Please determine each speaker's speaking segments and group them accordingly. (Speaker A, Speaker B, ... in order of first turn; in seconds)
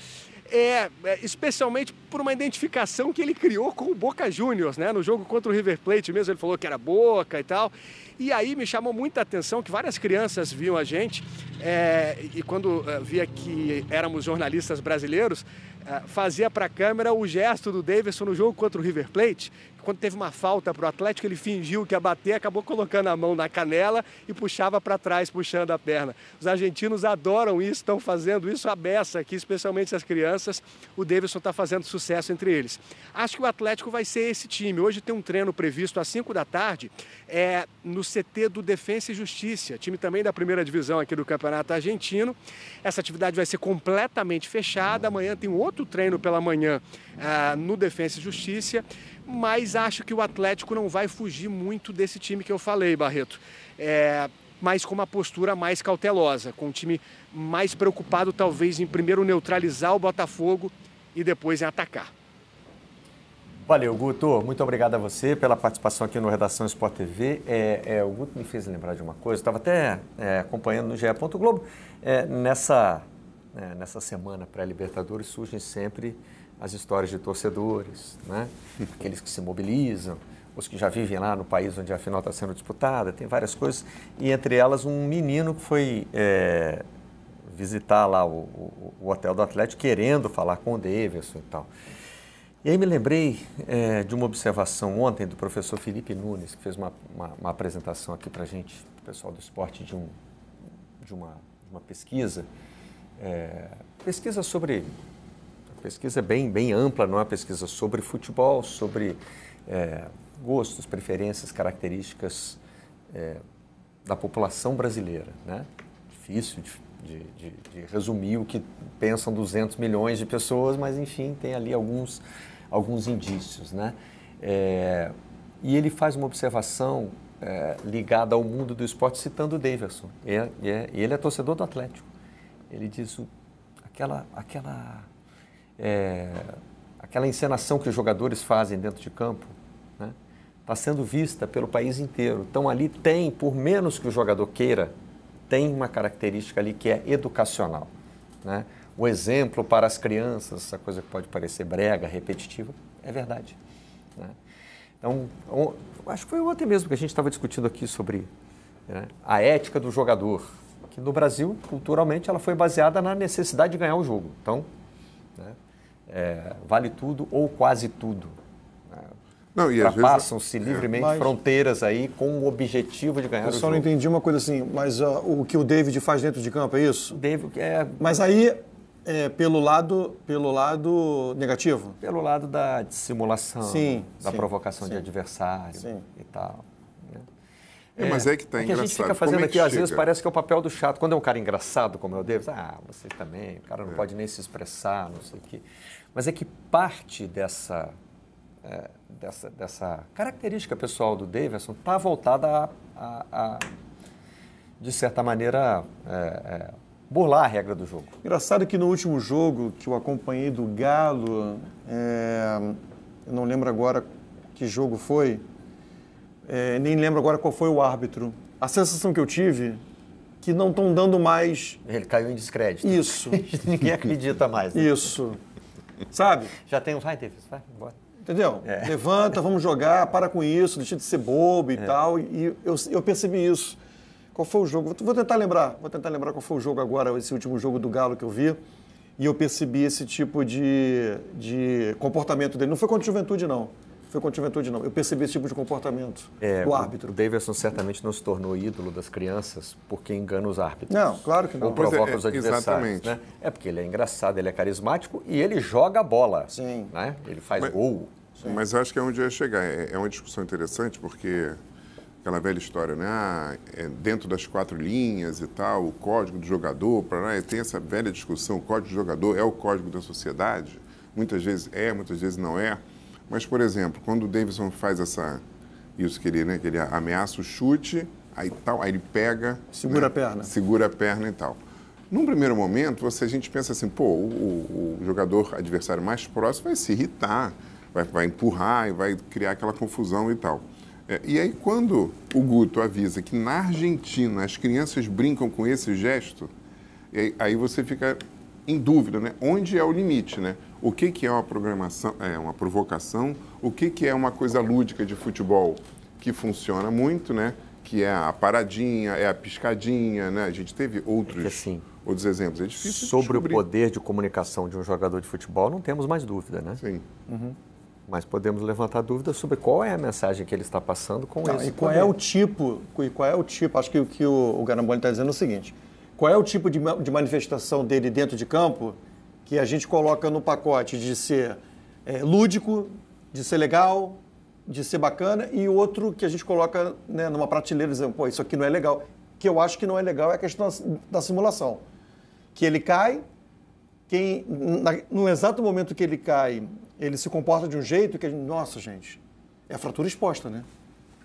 Speaker A: 0.5-62.1
Speaker B: 63.7-86.8, 87.5-91.7, 92.6-100.2, 101.0-102.5, 103.2-104.9, 105.7-113.4, 114.1-132.1, 132.7-133.3, 133.9-135.1, 135.8-140.2, 140.7-144.9, 145.5-147.9, 148.4-153.6, 155.0-158.3, 158.9-164.7, 166.1-168.4, 169.8-173.8, 177.1-178.1, 182.0-187.3, 188.0-197.9, 198.6-203.7, 204.8-208.1, 221.8-225.1, 226.5-228.0, 228.6-228.9, 246.4-258.3, 311.3-311.9, 312.8-316.8, 318.1-322.1
Speaker C: 169.6-170.8, 188.0-190.1, 251.6-253.2, 258.4-261.6, 262.2-275.4, 276.0-281.6, 282.1-296.5, 297.1-313.6
Speaker D: 170.9-171.3, 173.4-177.2, 178.0-182.0, 183.6-185.0, 185.8-186.1, 208.2-215.4, 216.5-219.8, 220.4-221.8, 222.8-223.4, 224.7-225.4, 226.1-226.5, 228.2-233.8, 234.3-238.6, 239.2-247.1, 250.9-251.8, 256.5-256.9, 279.7-280.5, 317.3-317.6, 321.4-341.8, 342.6-343.2, 344.1-350.7